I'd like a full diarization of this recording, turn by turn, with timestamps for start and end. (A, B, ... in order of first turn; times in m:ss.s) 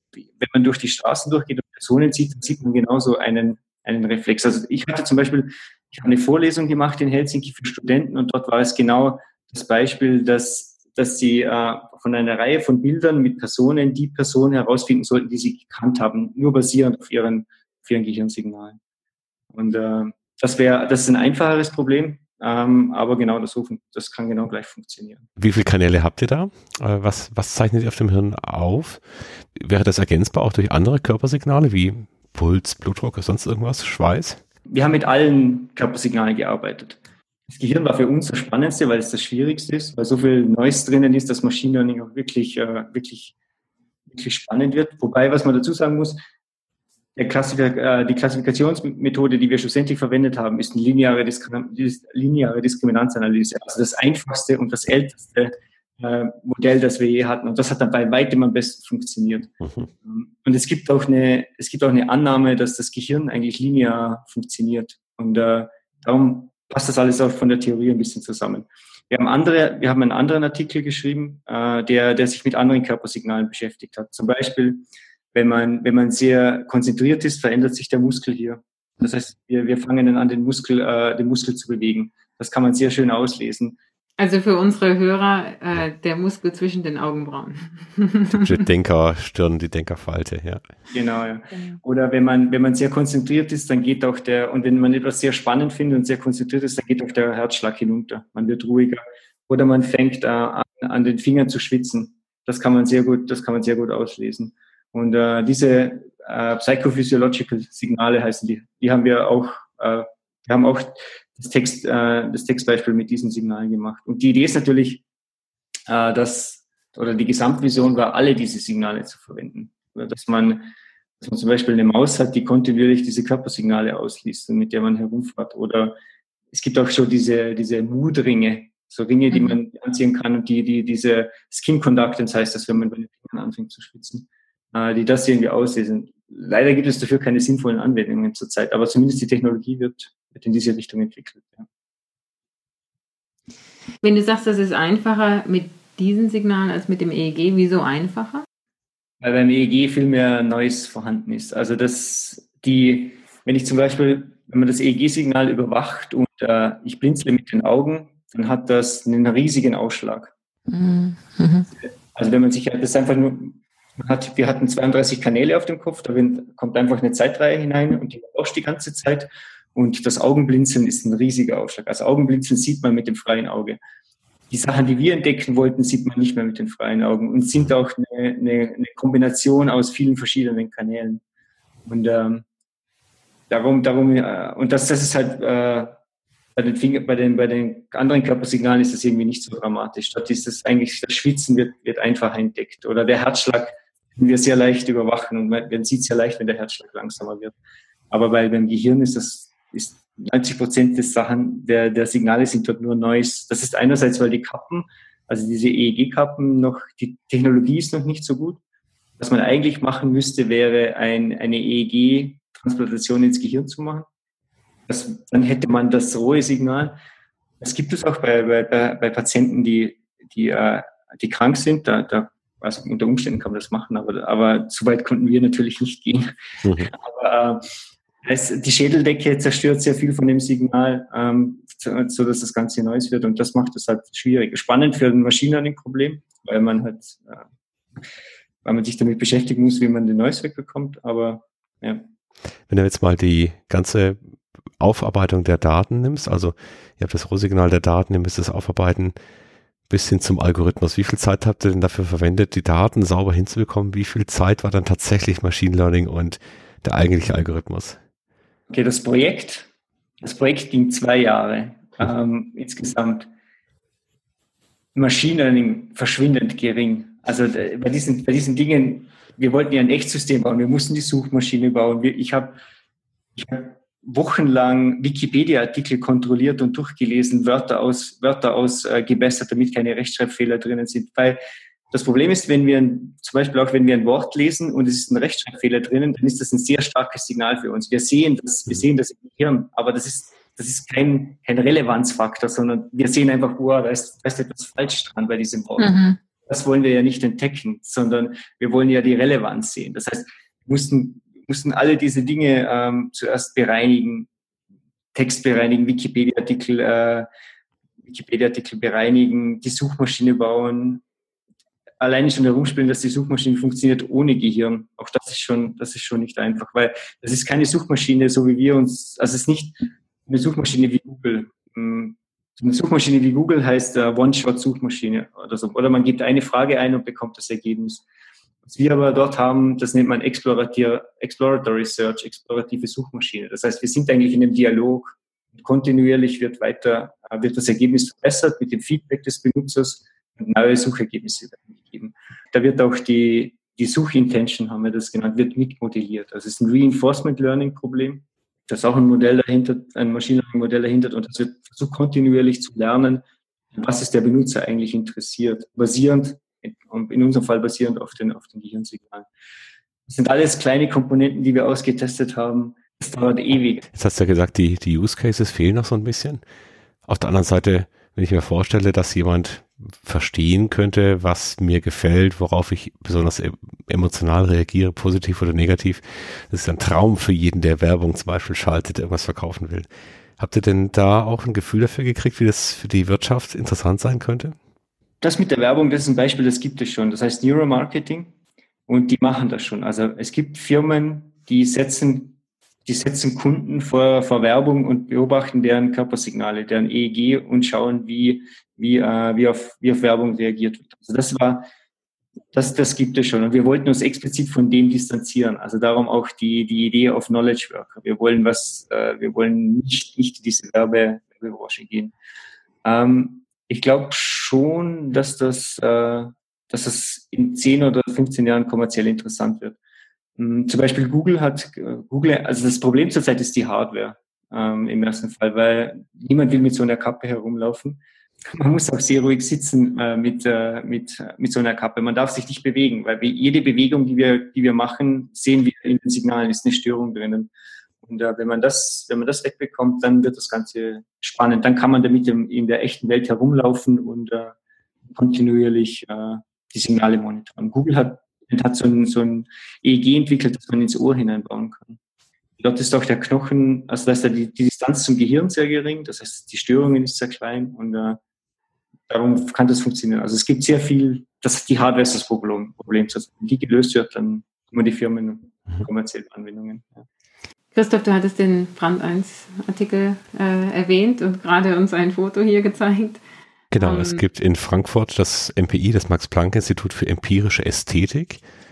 0:00.4-0:18.8 A
0:19.5-0:25.2 A
0:25.4-0:29.0 B
0:29.6-0:34.4 B
0:34.7-0:43.3 A
0:44.1-0:46.2 A
0:47.2-1:23.8 A
0:59.6-0:59.9 B
1:24.2-1:28.4 C
1:28.3-1:30.6 B
1:30.9-1:55.0 A
1:31.5-1:31.8 C
1:55.9-2:00.7 A
2:01.2-2:05.9 A
2:06.5-2:21.6 A
2:09.3-2:09.6 C
2:24.0-2:28.4 C
2:29.2-2:40.3 A
2:40.7-2:41.7 C
2:41.8-2:53.8 A
2:54.5-3:01.2 A
3:01.8-3:02.4 A
3:03.5-3:06.0 A
3:06.6-3:17.5 A
3:18.1-3:28.6 A
3:29.2-3:34.1 A
3:34.9-3:37.0 A
3:37.6-3:46.2 A
3:46.6-3:46.9 B
3:46.9-3:47.6 A
3:48.2-3:57.4 A
3:58.6-4:02.0 A
4:02.7-4:04.2 B
4:04.8-4:09.1 B
4:09.9-4:18.0 B
4:18.7-4:19.7 A
4:20.2-4:23.3 A
4:24.9-4:32.6 A
4:33.4-4:41.4 A
4:41.9-4:55.9 A
4:55.8-4:56.2 C
4:56.4-5:04.3 A
5:05.1-5:07.2 A
5:08.0-5:11.0 A
5:12.0-5:28.0 A
5:28.6-5:59.3 A
6:00.1-6:03.8 A
6:03.9-6:06.4 B
6:07.0-6:24.6 B
6:25.2-6:28.3 A
6:28.9-6:41.7 A
6:42.5-6:52.1 A
6:52.8-6:59.8 A
7:00.4-7:08.0 A
7:08.5-7:17.5 A
7:18.0-7:24.5 A
7:25.0-7:32.0 A
7:32.6-7:38.2 A
7:39.1-7:47.0 A
7:47.7-7:53.2 C
7:53.7-7:58.4 B
7:53.7-7:54.2 C